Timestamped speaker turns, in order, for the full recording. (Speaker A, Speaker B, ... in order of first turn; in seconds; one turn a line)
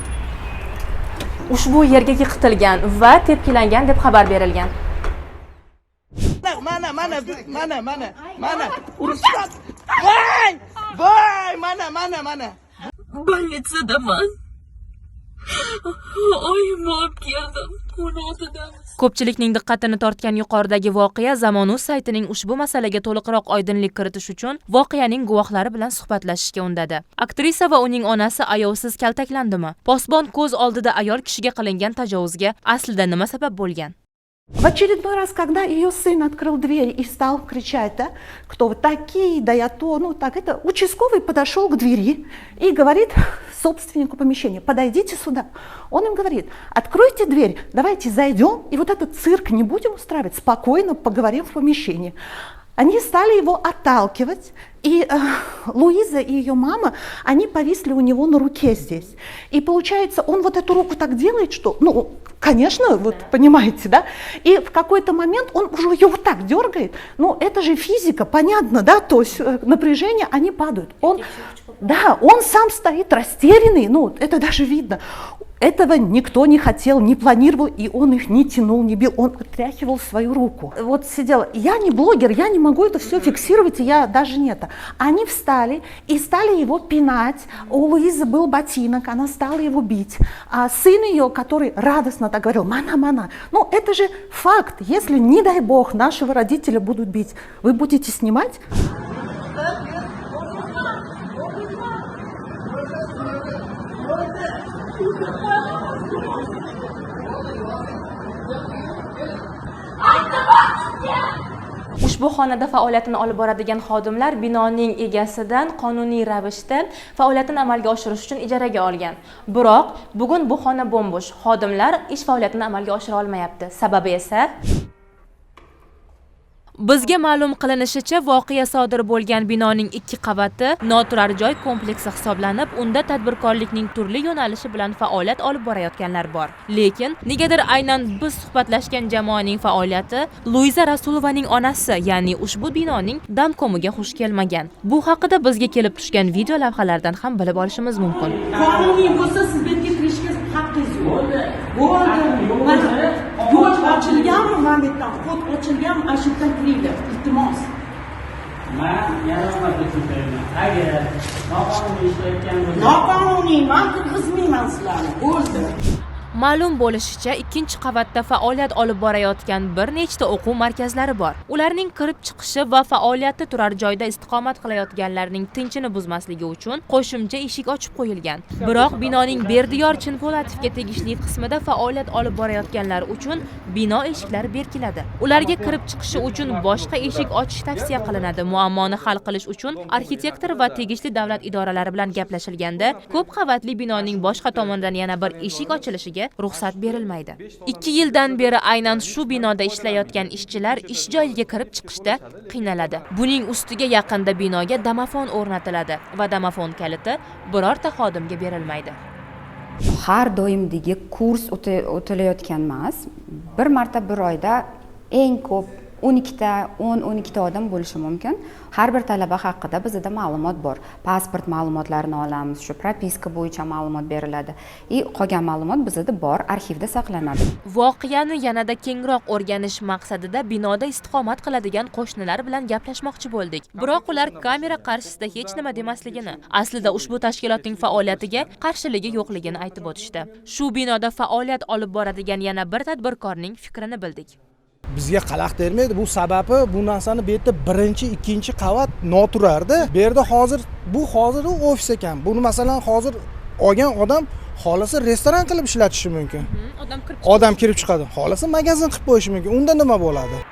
Speaker A: 1.5-4.7
Speaker B: 6.4-12.5
Speaker A: 13.3-14.2
Speaker A: 16.6-17.0
Speaker A: 19.0-33.9
Speaker C: 34.6-52.1
Speaker C: 52.8-71.2
Speaker C: 71.8-75.0
Speaker C: 75.6-98.6
Speaker A: 112.0-124.5
Speaker A: 126.8-148.4
Speaker D: 148.4-149.4
Speaker E: 148.5-151.2
Speaker D: 151.0-154.4
Speaker E: 151.7-157.7
Speaker D: 158.7-163.2
Speaker E: 162.7-165.7
Speaker A: 166.3-209.0
Speaker F: 209.9-227.5
Speaker A: 227.7-244.3
Speaker B: 233.8-234.5
Speaker B: 237.8-238.3
Speaker B: 244.9-256.5
Speaker A: 256.4-257.9
Speaker B: 257.2-260.4